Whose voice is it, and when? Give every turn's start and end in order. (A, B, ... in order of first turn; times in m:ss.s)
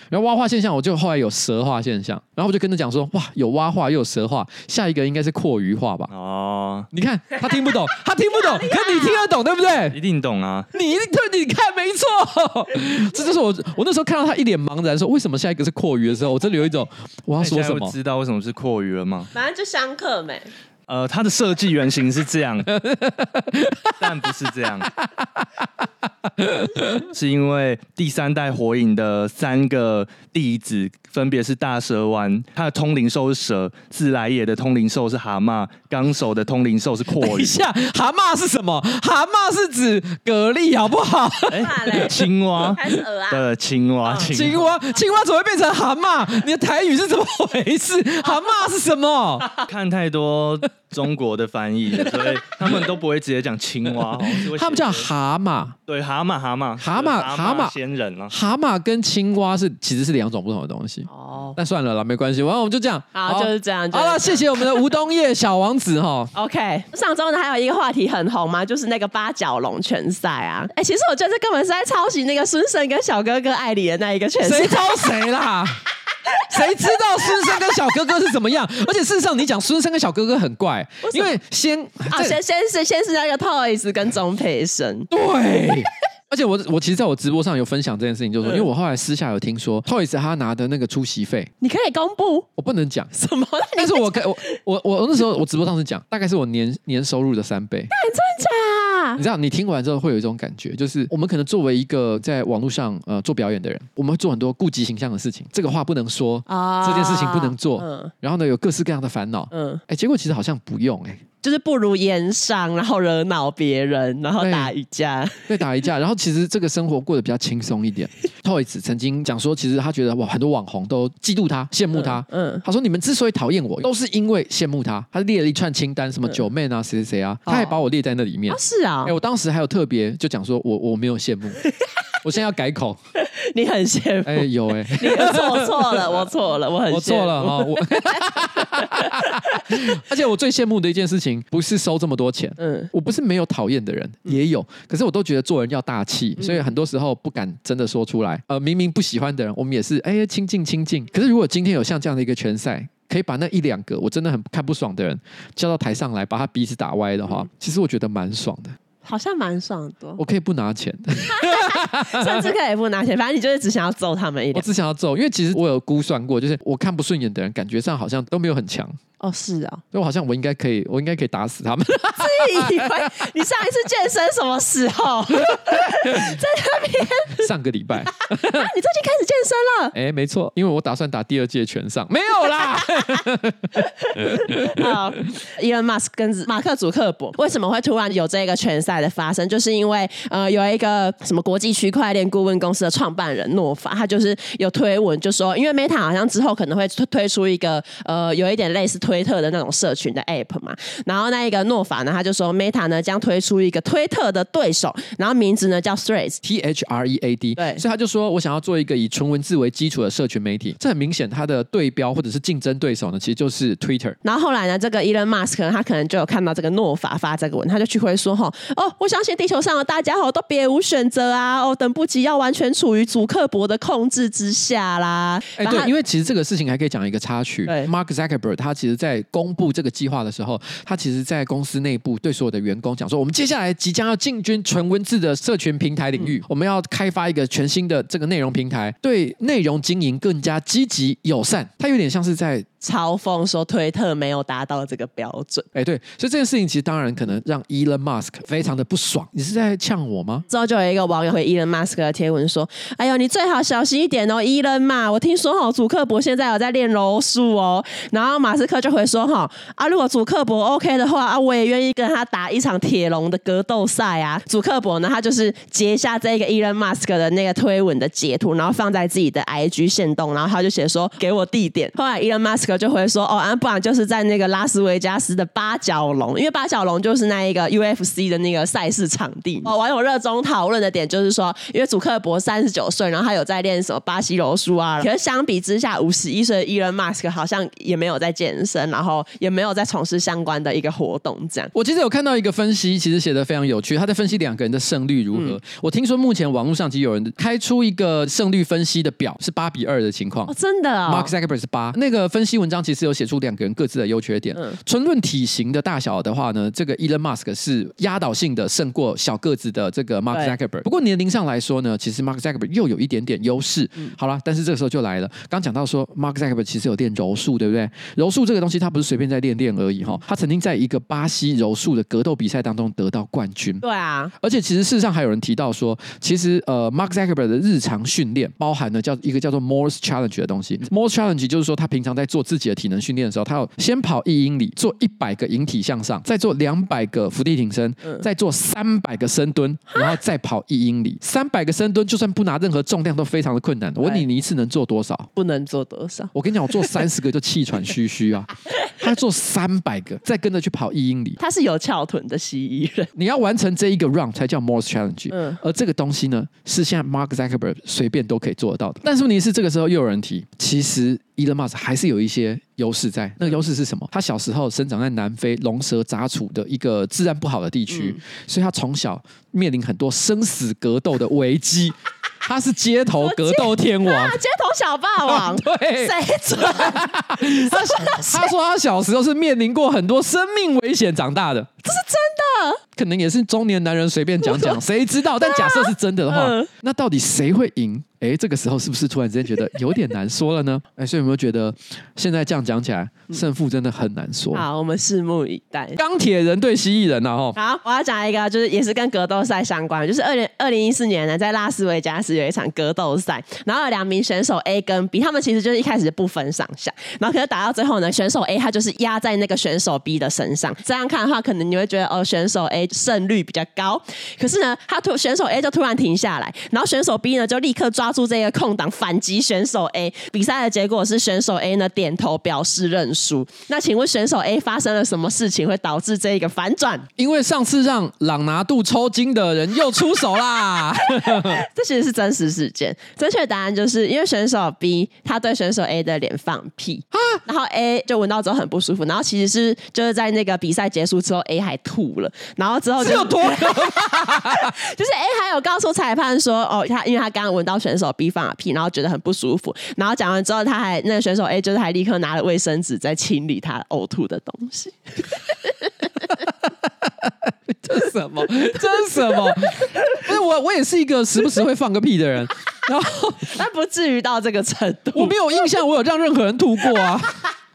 0:00.1-0:06.1 A
0:06.1-0:06.9 B
0:06.9-0:10.0 A
0:08.3-0:09.3 C
0:09.9-0:10.7 B
0:10.7-0:17.9 A
0:17.4-0:19.3 B
0:19.3-0:20.5 C
0:20.9-0:22.7 B
0:22.7-0:24.0 A
0:24.0-0:24.9 B
0:25.0-0:25.5 A
0:26.4-0:27.1 A
0:27.0-0:37.6 B
0:37.2-0:42.3 A
0:41.5-0:44.7 B
0:41.6-0:42.2 C
0:42.7-0:43.4 C
0:44.2-0:49.5 A
0:48.2-0:48.7 C
0:49.6-0:55.1 B
0:54.5-0:55.8 A
0:55.9-0:58.3 B
0:56.8-0:57.7 A
0:58.3-1:06.3 A
1:01.1-1:01.6 C
1:03.1-1:05.0 C
1:06.3-1:15.1 C
1:14.4-1:15.8 A
1:16.5-1:22.4 A
1:21.0-1:21.3 C
1:22.1-1:25.1 C
1:25.1-1:31.5 A
1:31.6-1:32.5 C
1:32.6-1:33.1 A
1:33.1-1:34.4 C
1:33.8-1:37.9 A
1:37.9-1:39.2 C
1:39.2-1:51.2 A
1:46.5-1:48.1 C
1:49.5-1:49.8 C
1:51.4-1:55.5 C
1:54.4-1:54.7 A
1:55.5-2:11.6 A
2:01.9-2:02.6 C
2:07.5-2:07.8 C
2:08.5-2:09.1 C
2:12.2-2:13.0 A
2:13.1-2:19.8 C
2:14.2-2:16.2 A
2:16.9-2:38.8 A
2:22.6-2:22.9 C
2:26.4-2:26.6 C
2:39.0-2:40.2 C
2:40.2-2:42.5 A
2:41.3-2:44.7 C
2:44.5-2:49.0 A
2:49.2-2:49.8 C
2:49.9-2:53.1 A
2:51.9-2:57.5 C
2:56.0-2:56.3 A
2:57.3-2:58.7 A
2:58.1-2:59.9 C
2:59.9-3:04.9 A
3:02.5-3:03.2 C
3:03.8-3:26.4 C
3:26.4-3:34.2 A
3:27.6-3:27.8 C
3:34.2-3:45.9 C
3:45.6-4:02.7 A
4:02.8-4:05.7 C
4:05.7-4:10.4 A
4:10.5-4:51.7 C
4:51.7-5:00.5 A
4:55.3-4:55.6 C
5:00.5-5:01.3 C
5:01.1-5:23.8 A
5:10.3-5:10.6 C
5:23.8-5:24.3 C
5:24.4-5:45.3 A
5:45.4-5:47.0 C
5:46.3-5:51.4 A
5:51.4-5:53.1 C
5:53.2-6:14.4 A
5:55.3-5:55.6 C
6:07.9-6:08.2 C
6:13.2-6:18.5 C
6:15.2-6:21.7 A
6:21.8-6:22.8 C
6:22.9-6:34.6 A
6:24.4-6:24.8 C
6:25.4-6:26.7 C
6:34.5-6:36.0 C
6:36.0-6:37.6 A
6:37.6-7:07.1 C
7:07.2-7:11.6 A
7:11.1-7:35.9 C
7:17.1-7:17.4 A
7:23.0-7:24.7 A
7:37.0-7:43.5 A
7:39.2-7:40.0 C
7:43.4-7:45.4 C
7:45.1-7:47.4 A